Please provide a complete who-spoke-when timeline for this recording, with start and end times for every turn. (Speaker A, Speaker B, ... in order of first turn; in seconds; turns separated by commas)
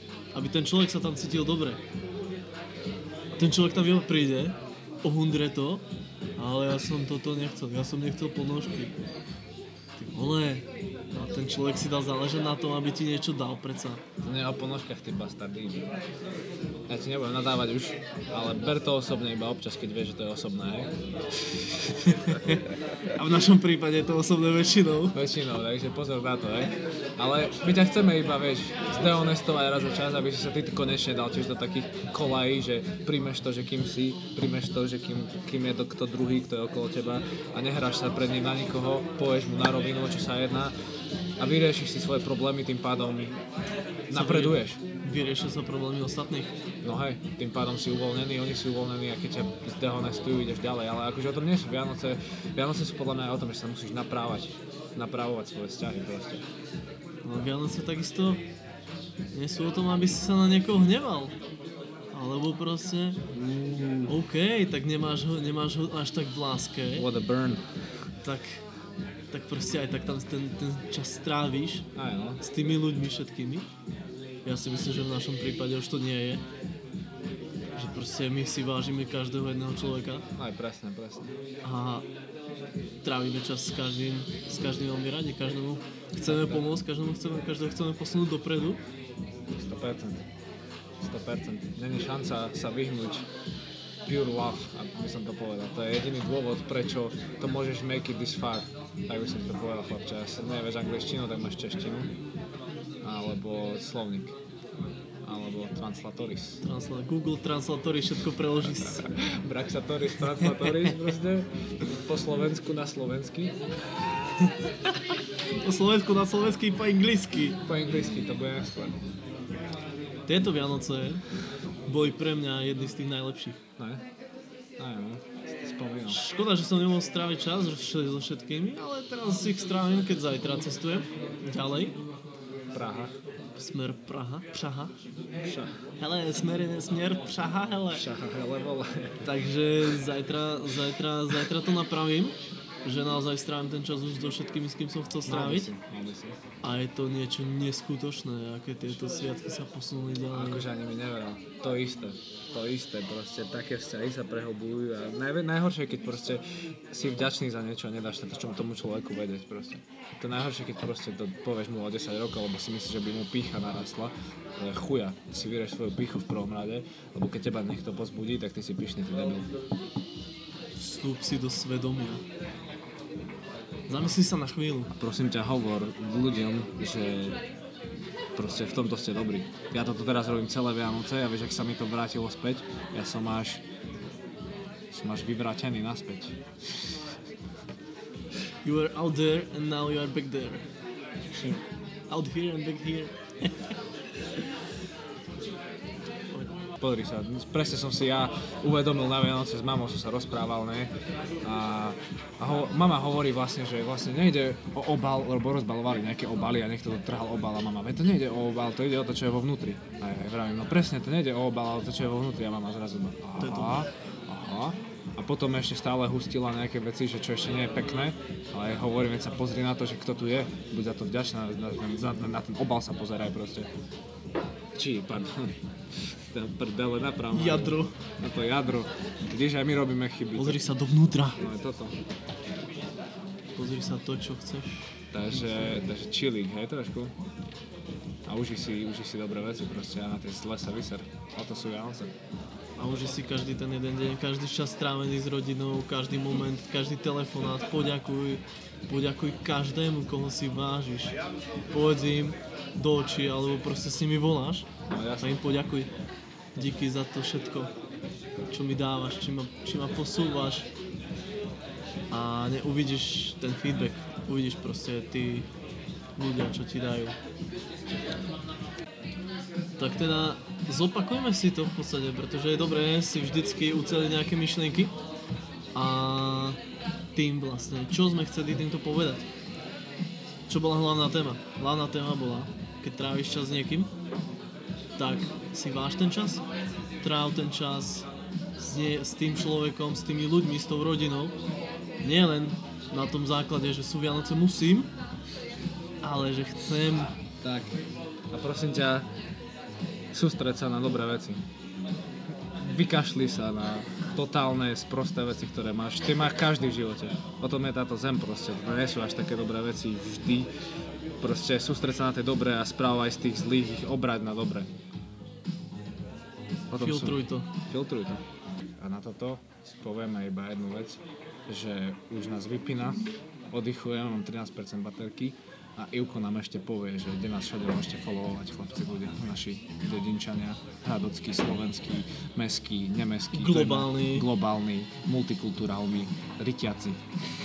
Speaker A: 0.3-1.8, Speaker A: 3.3-5.8, Speaker A: 6.4-8.9, Speaker A: 10.0-14.0, Speaker B: 14.2-15.9, Speaker B: 16.9-22.6, Speaker A: 23.1-25.2, Speaker B: 25.1-40.7, Speaker B: 41.4-43.4, Speaker B: 44.1-44.8, Speaker A: 44.1-46.5, Speaker B: 46.8-56.4, Speaker A: 57.2-58.4, Speaker A: 59.3-61.3, Speaker A: 62.1-63.2, Speaker B: 63.3-64.2, Speaker A: 64.1-67.1, Speaker B: 66.9-67.6, Speaker A: 68.2-68.6, Speaker A: 69.3-71.8, Speaker B: 72.0-72.4, Speaker A: 72.4-73.7, Speaker A: 74.5-76.4, Speaker A: 77.8-80.2, Speaker B: 80.3-81.3, Speaker A: 81.6-82.0, Speaker A: 83.0-88.8, Speaker B: 86.2-86.7, Speaker B: 89.5-90.2, Speaker B: 91.0-93.2, Speaker B: 94.0-102.1, Speaker B: 103.0-104.3, Speaker B: 105.2-106.6, Speaker A: 106.6-109.0, Speaker B: 108.6-113.5, Speaker A: 115.6-117.6, Speaker B: 117.6-119.0, Speaker A: 120.3-121.2, Speaker A: 121.9-123.6, Speaker B: 123.8-124.0, Speaker B: 124.8-126.2, Speaker A: 126.1-132.0, Speaker B: 132.7-133.1, Speaker A: 133.6-134.9, Speaker B: 135.4-135.7, Speaker A: 136.0-138.0, Speaker B: 137.9-139.2, Speaker A: 139.2-145.7, Speaker B: 145.2-146.4, Speaker A: 146.6-150.7, Speaker B: 150.3-169.5, Speaker A: 170.8-172.2, Speaker A: 173.9-174.9, Speaker B: 174.9-177.4, Speaker B: 178.3-183.6, Speaker B: 184.9-186.9, Speaker A: 188.6-190.6, Speaker B: 191.3-191.6, Speaker A: 192.1-193.7, Speaker B: 196.8-200.9, Speaker B: 201.4-223.7, Speaker A: 213.4-213.9, Speaker B: 224.8-230.6, Speaker A: 227.3-228.0, Speaker A: 230.3-231.4, Speaker B: 231.4-232.0, Speaker A: 233.6-234.8, Speaker B: 235.1-237.1, Speaker A: 235.3-235.8, Speaker B: 238.2-242.1, Speaker A: 242.8-251.1, Speaker A: 251.7-255.9, Speaker B: 254.9-255.4, Speaker A: 256.6-257.7, Speaker A: 258.5-260.7, Speaker A: 262.1-265.5, Speaker A: 266.2-267.2, Speaker A: 269.8-274.9, Speaker A: 275.7-276.6, Speaker A: 277.1-279.2, Speaker A: 280.5-283.9, Speaker A: 285.0-286.4, Speaker A: 287.0-288.1, Speaker A: 288.6-291.4, Speaker A: 292.0-294.9, Speaker A: 296.0-297.1, Speaker B: 297.4-299.1, Speaker B: 300.1-301.4, Speaker B: 302.6-310.5, Speaker B: 311.2-314.7, Speaker B: 316.7-318.2, Speaker A: 316.8-317.5, Speaker B: 318.8-337.0, Speaker A: 333.3-334.3